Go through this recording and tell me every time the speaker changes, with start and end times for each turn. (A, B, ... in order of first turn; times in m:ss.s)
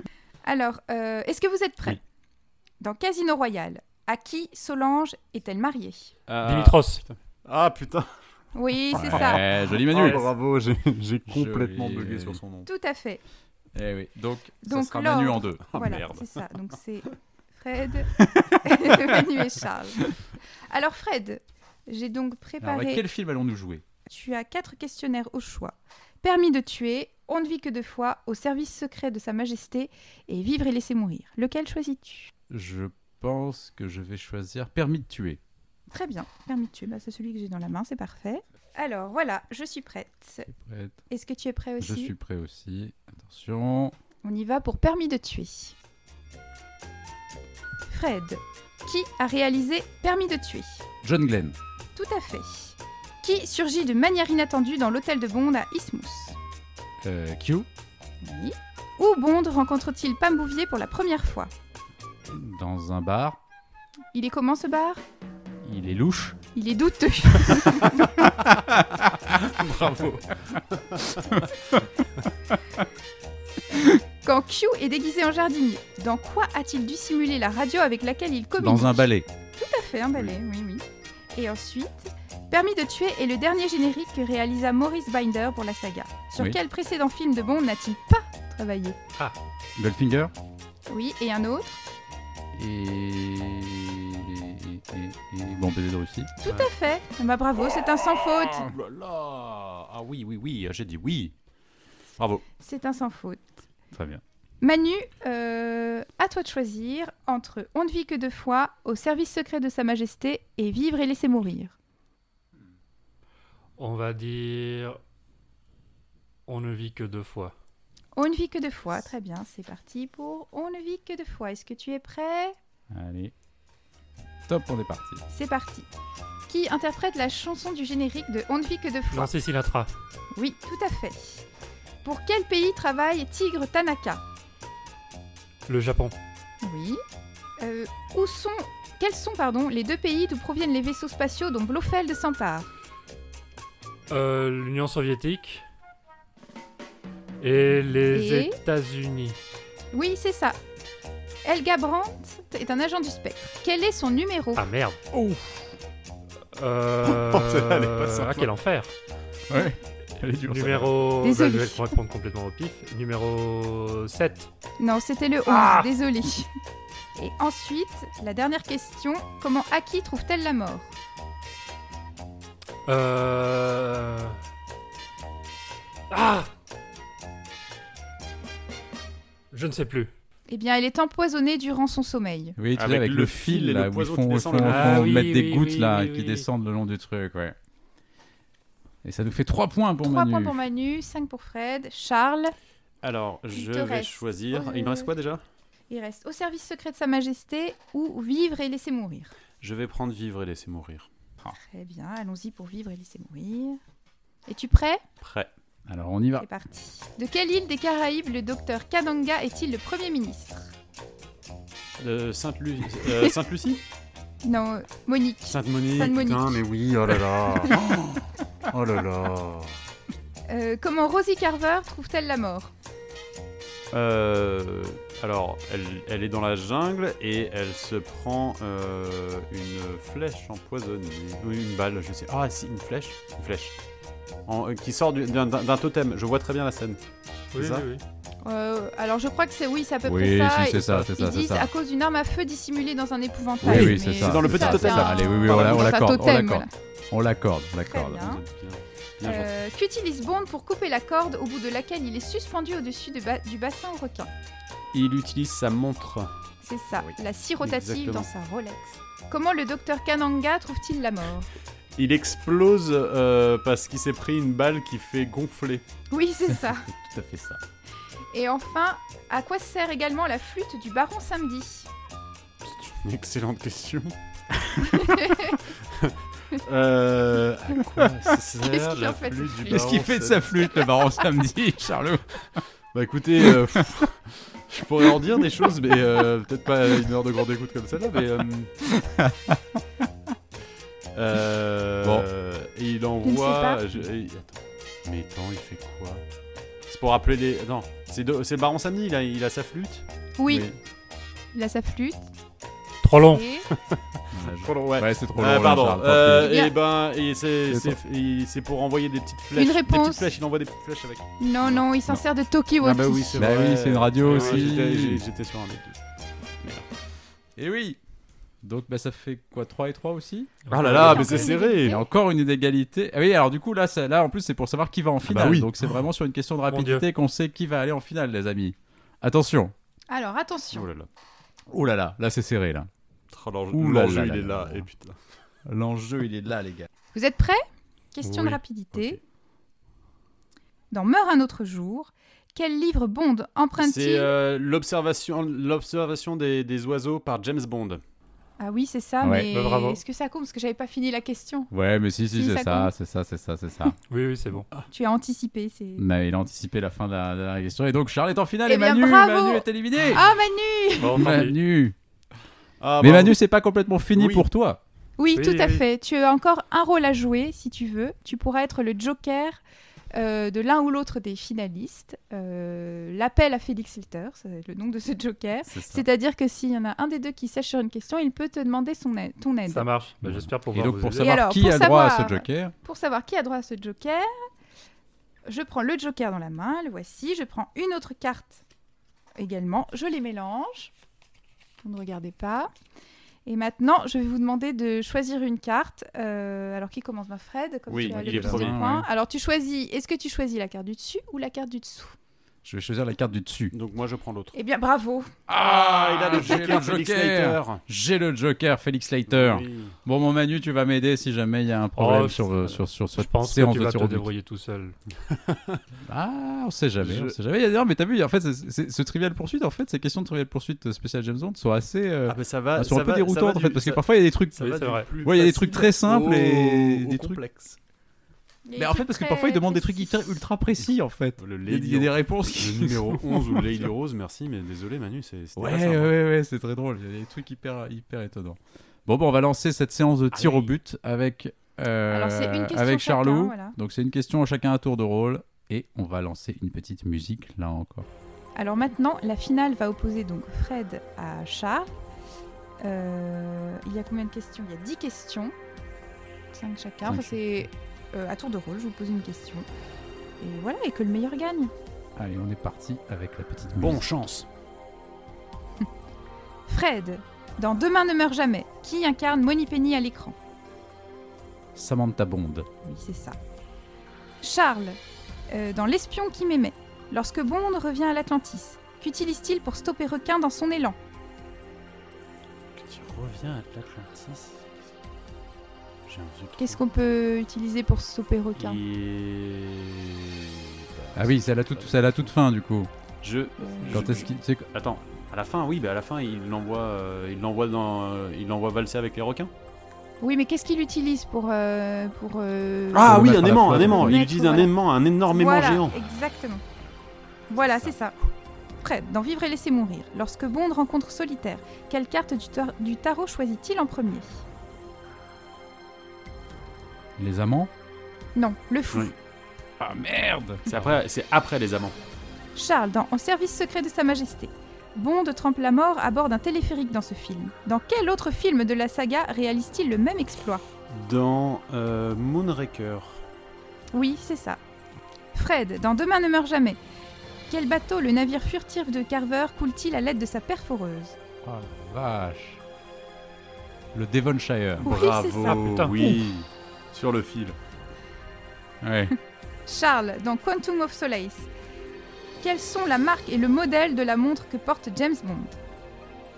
0:00.4-0:02.0 A
0:02.8-0:06.1 A
0:06.3-0:08.1 B
0:06.4-0:07.0 C
0:08.5-0:09.5 A
0:08.9-0:10.3 D
0:08.9-0:12.7 B
0:11.3-0:12.4 D
0:12.6-0:13.2 A
0:13.7-0:15.7 D
0:14.6-0:20.1 A
0:15.7-0:16.4 B
0:18.2-0:19.4 D
0:20.7-0:23.0 A
0:22.6-0:23.8 D
0:24.1-0:32.3 A
0:32.5-0:35.4 D
0:35.9-0:40.5 A
0:40.5-0:41.0 D
0:41.1-0:42.1 A
0:41.8-0:43.9 D
0:44.2-0:45.8 A
0:47.9-0:50.8 A
0:51.0-0:51.6 D
0:51.9-0:56.4 A
0:57.0-0:57.7 D
0:58.2-1:01.5 A
1:02.3-1:03.4 D
1:04.1-1:05.0 A
1:05.6-1:06.4 D
1:06.5-1:08.0 A
1:08.2-1:10.1 D
1:09.6-1:11.2 B
1:14.2-1:29.0 A
1:18.6-1:19.3 D
1:29.8-1:30.3 D
1:30.9-1:31.8 A
1:32.5-1:36.3 D
1:36.4-1:38.7 A
1:38.6-1:41.3 B
1:42.2-1:42.4 B
1:42.6-1:43.4 A
1:43.9-1:44.2 D
1:44.6-1:51.7 A
1:53.8-1:55.0 C
1:56.5-1:57.5 C
1:58.1-2:02.6 A
2:02.9-2:03.3 D
2:04.5-2:05.2 D
2:05.3-2:05.9 A
2:06.5-2:09.3 A
2:09.1-2:09.9 C
2:10.3-2:11.4 A
2:12.0-2:14.2 A
2:15.7-2:16.2 C
2:16.6-2:17.0 A
2:17.6-2:22.7 A
2:24.1-2:25.6 C
2:27.4-2:29.4 C
2:28.1-2:28.6 A
2:29.9-2:30.6 A
2:31.4-2:34.6 A
2:34.6-2:35.0 C
2:35.1-2:35.7 D
2:36.5-2:38.9 C
2:37.1-2:38.5 B
2:39.5-2:40.9 D
2:40.4-2:44.5 C
2:41.2-2:42.0 A
2:44.8-2:46.5 A
2:45.4-2:45.9 C
2:47.2-2:50.9 A
2:52.9-2:54.4 C
2:56.1-2:56.5 C
2:59.5-3:00.1 C
3:00.5-3:02.6 A
3:02.6-3:07.5 D
3:02.7-3:05.3 B
3:04.5-3:06.5 C
3:09.0-3:10.6 D
3:10.0-3:12.5 A
3:13.0-3:15.4 B
3:13.5-3:15.1 A
3:15.9-3:19.3 A
3:19.6-3:21.1 B
3:21.5-3:23.8 A
3:24.5-3:25.0 A
3:25.2-3:25.5 B
3:25.9-3:26.5 D
3:26.4-3:30.7 A
3:32.0-3:33.8 B
3:34.4-3:36.6 A
3:35.5-3:39.8 B
3:40.5-3:42.7 A
3:43.9-3:53.7 B
3:54.4-3:57.0 B
3:57.5-3:58.0 C
3:57.5-3:57.9 B
3:58.4-4:06.7 A
4:00.0-4:01.7 D
4:03.6-4:08.4 D
4:03.6-4:06.0 B
4:07.8-4:08.4 A
4:08.2-4:09.5 B
4:09.2-4:14.3 A
4:14.9-4:16.3 B
4:16.6-4:21.5 A
4:17.6-4:18.3 B
4:22.0-4:25.8 B
4:26.1-4:26.9 A
4:26.5-4:27.6 D
4:28.3-4:31.9 A
4:32.6-4:34.2 B
4:34.9-4:40.7 B
4:34.9-4:35.6 A
4:38.6-4:39.9 A
4:39.6-4:42.6 D
4:42.9-4:48.7 B
4:43.4-4:43.8 D
4:48.8-4:49.6 D
4:51.1-4:56.2 B
4:52.0-4:52.3 D
4:53.2-4:54.0 A
4:56.9-5:00.0 B
5:00.4-5:00.7 A
5:00.5-5:00.7 D
5:01.5-5:02.3 A
5:03.0-5:03.4 C
5:03.2-5:03.7 A
5:04.3-5:06.6 D
5:04.6-5:11.9 B
5:06.3-5:06.7 A
5:07.7-5:08.0 D
5:09.5-5:10.3 A
5:11.4-5:13.5 A
5:12.8-5:16.0 B
5:13.3-5:15.2 D
5:14.2-5:14.7 C
5:16.6-5:16.8 B
5:17.6-5:18.0 D
5:18.6-5:29.7 D
5:20.6-5:21.4 C
5:20.7-5:22.0 B
5:20.9-5:22.1 A
5:25.2-5:25.9 B
5:26.7-5:27.1 C
5:30.1-5:30.9 A
5:30.7-5:31.1 B
5:31.7-5:32.9 D
5:33.3-5:35.2 B
5:33.7-5:34.9 D
5:35.6-5:36.9 D
5:37.1-5:39.2 A
5:38.2-5:38.6 C
5:38.9-5:39.2 B
5:40.9-5:44.3 A
5:43.8-5:48.0 B
5:48.6-5:51.7 A
5:49.2-5:49.5 D
5:49.5-5:50.0 C
5:51.7-5:54.0 D
5:52.3-5:52.9 A
5:54.1-5:54.6 C
5:54.9-5:56.0 A
5:56.0-6:00.3 D
5:58.7-6:01.3 A
6:01.0-6:01.5 C
6:01.0-6:01.9 D
6:02.8-6:03.4 B
6:03.0-6:04.8 D
6:04.1-6:04.4 B
6:05.2-6:09.6 A
6:05.4-6:05.8 C
6:10.1-6:19.8 A
6:15.7-6:16.0 D
6:19.7-6:21.3 C
6:20.2-6:22.7 D
6:21.2-6:24.3 A
6:25.5-6:28.6 A
6:29.4-6:30.9 A
6:31.8-6:32.7 A
6:33.4-6:42.2 A
6:37.9-6:38.8 B
6:38.0-6:39.0 D
6:42.6-6:43.7 D
6:43.7-6:44.6 B
6:44.5-6:45.3 A
6:45.5-6:54.3 D
6:45.6-6:47.8 B
6:49.3-6:49.9 B
6:52.0-6:55.0 C
6:55.3-6:55.8 B
6:56.1-7:07.4 D
6:57.0-6:57.3 B
7:02.3-7:04.0 B
7:04.6-7:07.8 B
7:04.6-7:05.1 C
7:08.7-7:10.4 A
7:08.8-7:13.7 D
7:11.4-7:16.1 B
7:15.6-7:28.1 D
7:20.3-7:20.7 B
7:22.1-7:23.8 A
7:28.6-7:31.9 A
7:32.8-7:35.5 A
7:36.5-7:39.6 A
7:37.0-7:37.4 D
7:40.4-7:41.7 A
7:42.2-7:44.0 D
7:43.8-7:44.5 B
7:46.7-7:50.3 A
7:51.7-7:52.7 D
7:52.8-7:53.4 A
7:54.4-8:01.0 A
8:02.7-8:04.7 B
8:06.0-8:06.8 B
8:06.6-8:08.8 A
8:08.6-8:12.2 B
8:11.2-8:12.9 D
8:13.2-8:19.5 B
8:13.6-8:14.3 A
8:13.9-8:14.7 D
8:20.2-8:24.7 A
8:22.9-8:26.0 B
8:23.0-8:24.2 D
8:25.3-8:26.6 A
8:27.5-8:28.2 A
8:28.8-8:34.4 A
8:37.2-8:37.7 D
8:38.3-8:39.1 A
8:39.8-8:41.0 D
8:40.6-8:42.0 B
8:42.6-8:50.6 A
8:50.9-8:53.2 B
8:53.9-8:54.6 A
8:55.3-8:56.8 A
8:57.5-9:01.2 A
9:01.4-9:02.6 D
9:03.9-9:04.9 D
9:04.8-9:05.7 A
9:04.8-9:07.6 B
9:05.4-9:05.9 C
9:06.0-9:06.3 D
9:08.8-9:09.1 D
9:09.7-9:11.5 A
9:12.4-9:15.6 A